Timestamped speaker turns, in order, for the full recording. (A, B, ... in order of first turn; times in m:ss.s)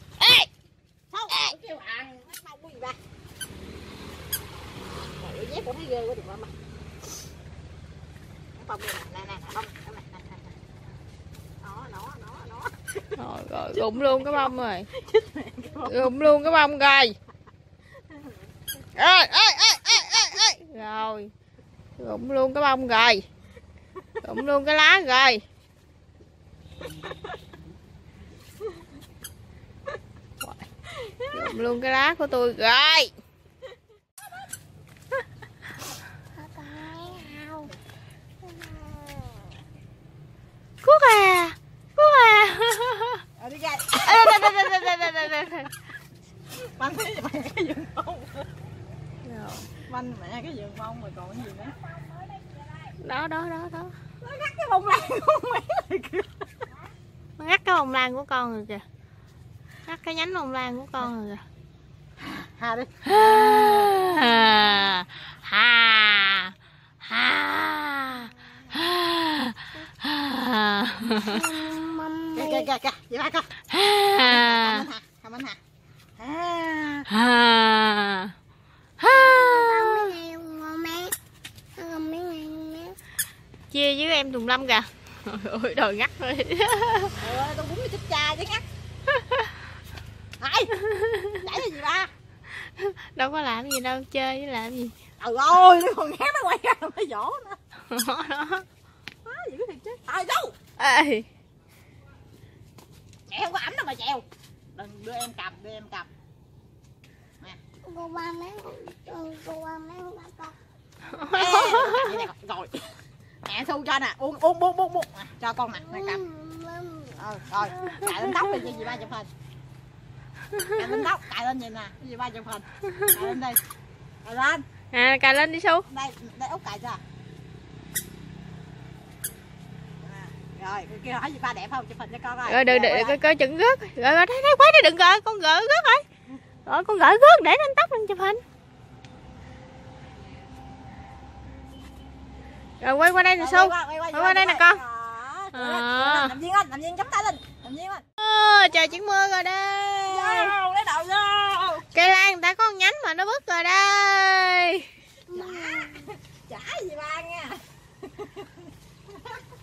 0:00.2-0:00.5 A
0:01.1-0:03.0 B
0:05.2-0:06.5 B
0:08.6-0:10.4 B
0:11.6-0:13.1 B
0:13.2-0:14.9 A
0:13.8-0:16.1 B
0:15.8-0:17.2 A
0:19.0-0:21.3 A
0:22.0-0:23.2 A
0:24.2-0:25.4 A
0:30.4-0:30.7 A
0:31.3-0:33.1 A
0:36.4-0:37.7 C
0:38.7-0:39.0 C
0:40.8-0:43.2 A
0:43.4-0:45.1 B
0:44.0-0:45.7 A
0:46.6-0:48.4 B
0:49.2-0:49.7 A
0:49.8-0:51.9 B
0:53.0-0:54.0 A
0:54.2-0:56.3 B
0:57.4-0:58.8 A
0:59.9-1:01.4 A
1:02.2-1:02.9 B
1:03.1-1:11.5 A
1:11.3-1:12.7 C
1:12.4-1:13.5 B
1:13.7-1:14.9 A
1:14.1-1:15.6 B
1:16.2-1:17.1 B
1:17.1-1:18.3 A
1:19.0-1:20.2 A
1:19.1-1:21.2 C
1:21.8-1:23.0 C
1:23.7-1:27.3 A
1:27.2-1:28.6 B
1:30.4-1:30.7 B
1:31.0-1:31.4 A
1:31.4-1:32.1 B
1:32.6-1:34.9 A
1:35.2-1:37.6 B
1:37.9-1:38.6 A
1:39.2-1:40.6 B
1:40.8-1:41.3 A
1:43.3-1:46.1 B
1:47.8-1:50.6 C
1:51.2-1:52.1 A
1:51.3-1:56.2 B
1:55.7-1:57.2 C
1:57.2-1:59.3 B
2:00.7-2:03.6 B
2:04.2-2:04.6 B
2:04.9-2:05.8 A
2:05.9-2:07.0 B
2:10.0-2:13.2 B
2:12.5-2:16.0 A
2:16.7-2:18.4 A
2:22.8-2:24.8 A
2:23.4-2:28.0 B
2:25.5-2:26.4 A
2:28.2-2:30.6 A
2:30.1-2:31.9 B
2:31.9-2:34.9 A
2:35.3-2:36.0 C
2:35.3-2:38.7 B